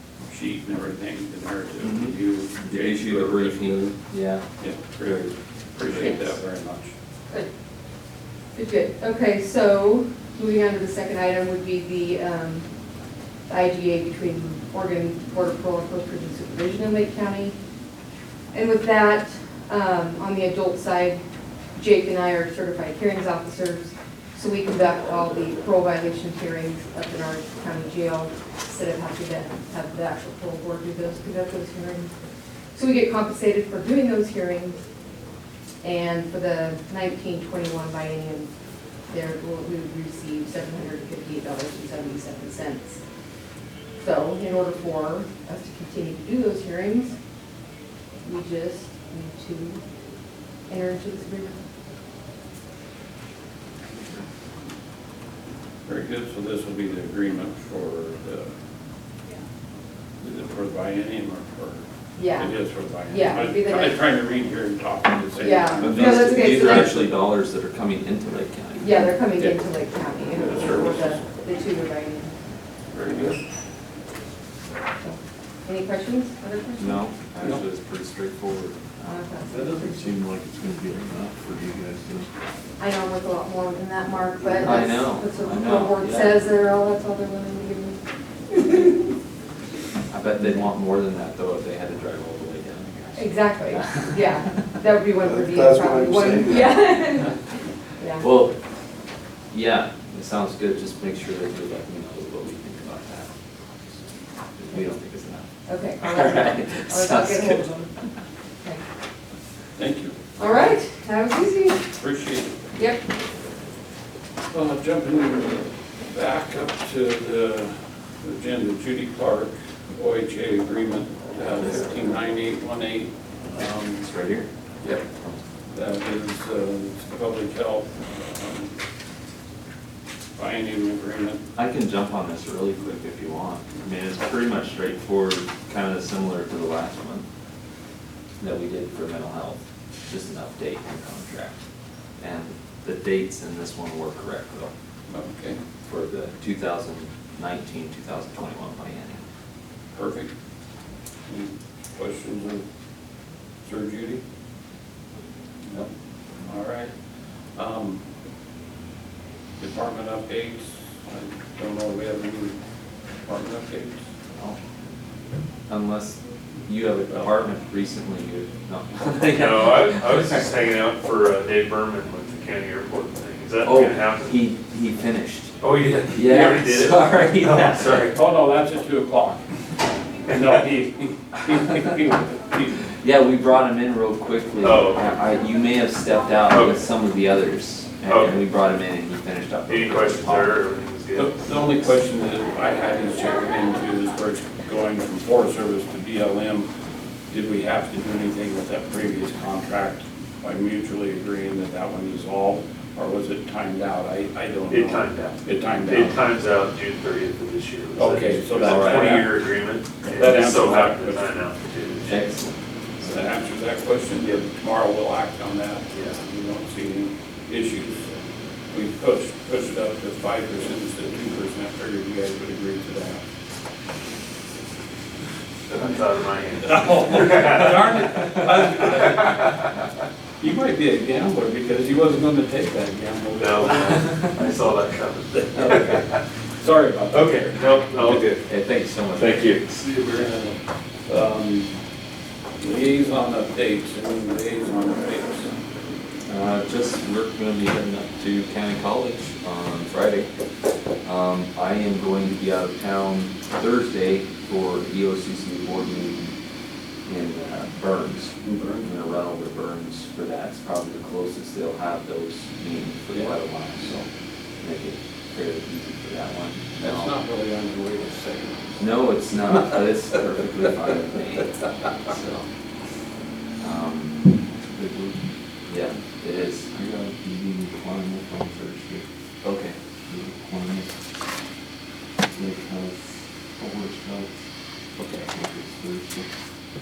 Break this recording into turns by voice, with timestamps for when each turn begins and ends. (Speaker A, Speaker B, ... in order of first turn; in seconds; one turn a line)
Speaker A: 0.2-4.0
Speaker B: 1.8-4.5
Speaker A: 4.6-6.9
Speaker B: 5.0-5.3
Speaker C: 5.9-6.2
Speaker C: 8.5-12.7
Speaker C: 13.5-17.6
Speaker C: 18.5-21.2
Speaker C: 21.8-32.1
Speaker C: 32.7-34.8
Speaker C: 35.8-38.5
Speaker C: 39.1-43.0
Speaker C: 44.0-47.1
Speaker C: 48.2-49.8
Speaker C: 50.7-51.5
Speaker A: 55.9-58.5
Speaker A: 60.2-61.8
Speaker C: 62.2-64.0
Speaker A: 62.4-66.8
Speaker C: 65.4-67.1
Speaker B: 65.8-69.1
Speaker C: 68.8-72.3
Speaker A: 69.4-69.6
Speaker A: 70.3-71.2
Speaker A: 72.9-73.4
Speaker C: 75.0-77.1
Speaker B: 76.8-79.2
Speaker A: 77.4-77.6
Speaker C: 79.0-80.2
Speaker D: 79.5-82.3
Speaker C: 82.8-88.0
Speaker B: 84.5-86.4
Speaker C: 88.5-89.1
Speaker B: 90.1-94.4
Speaker C: 93.2-97.4
Speaker D: 95.2-96.9
Speaker C: 98.0-98.2
Speaker B: 98.2-98.6
Speaker B: 99.5-105.5
Speaker C: 105.7-107.9
Speaker B: 106.0-108.1
Speaker A: 109.8-110.7
Speaker C: 110.4-111.9
Speaker A: 111.9-112.6
Speaker C: 112.8-113.0
Speaker A: 114.5-124.0
Speaker B: 121.5-122.0
Speaker B: 124.0-124.5
Speaker B: 125.1-125.4
Speaker A: 125.7-128.7
Speaker A: 130.4-131.4
Speaker B: 131.6-137.2
Speaker B: 138.4-141.6
Speaker B: 142.2-144.7
Speaker A: 145.1-145.6
Speaker B: 145.8-149.2
Speaker A: 149.9-150.3
Speaker A: 151.3-152.7
Speaker A: 153.6-154.2
Speaker A: 156.4-156.9
Speaker A: 157.5-158.0
Speaker A: 159.6-162.6
Speaker A: 163.2-164.0
Speaker B: 165.7-170.4
Speaker E: 169.3-174.3
Speaker B: 173.6-175.5
Speaker E: 175.6-178.2
Speaker B: 176.1-178.1
Speaker A: 178.1-179.4
Speaker A: 180.3-182.8
Speaker B: 183.0-190.6
Speaker E: 184.6-185.1
Speaker E: 186.5-186.8
Speaker E: 188.1-188.4
Speaker E: 189.7-191.8
Speaker A: 191.1-196.7
Speaker A: 197.3-206.2
Speaker E: 204.7-212.2
Speaker A: 207.9-209.3
Speaker B: 208.1-209.3
Speaker A: 210.0-211.4
Speaker B: 212.0-213.2
Speaker A: 213.0-218.2
Speaker A: 218.7-223.2
Speaker E: 225.7-229.7
Speaker A: 226.6-229.5
Speaker A: 230.4-234.1
Speaker E: 233.4-236.2
Speaker A: 235.4-238.2
Speaker E: 237.1-238.4
Speaker B: 238.4-239.6
Speaker E: 239.1-240.3
Speaker A: 240.1-241.8
Speaker A: 242.6-245.5
Speaker B: 246.3-250.3
Speaker B: 251.0-256.3
Speaker B: 257.1-264.1
Speaker A: 258.4-258.9
Speaker A: 263.1-263.4
Speaker B: 264.6-267.2
Speaker A: 266.8-268.8
Speaker B: 268.8-272.5
Speaker B: 273.6-274.3
Speaker D: 274.7-275.3
Speaker B: 275.7-276.8
Speaker D: 276.7-279.1
Speaker B: 279.4-279.8
Speaker D: 280.1-281.0
Speaker D: 282.2-284.4
Speaker B: 285.0-285.3
Speaker D: 285.3-286.3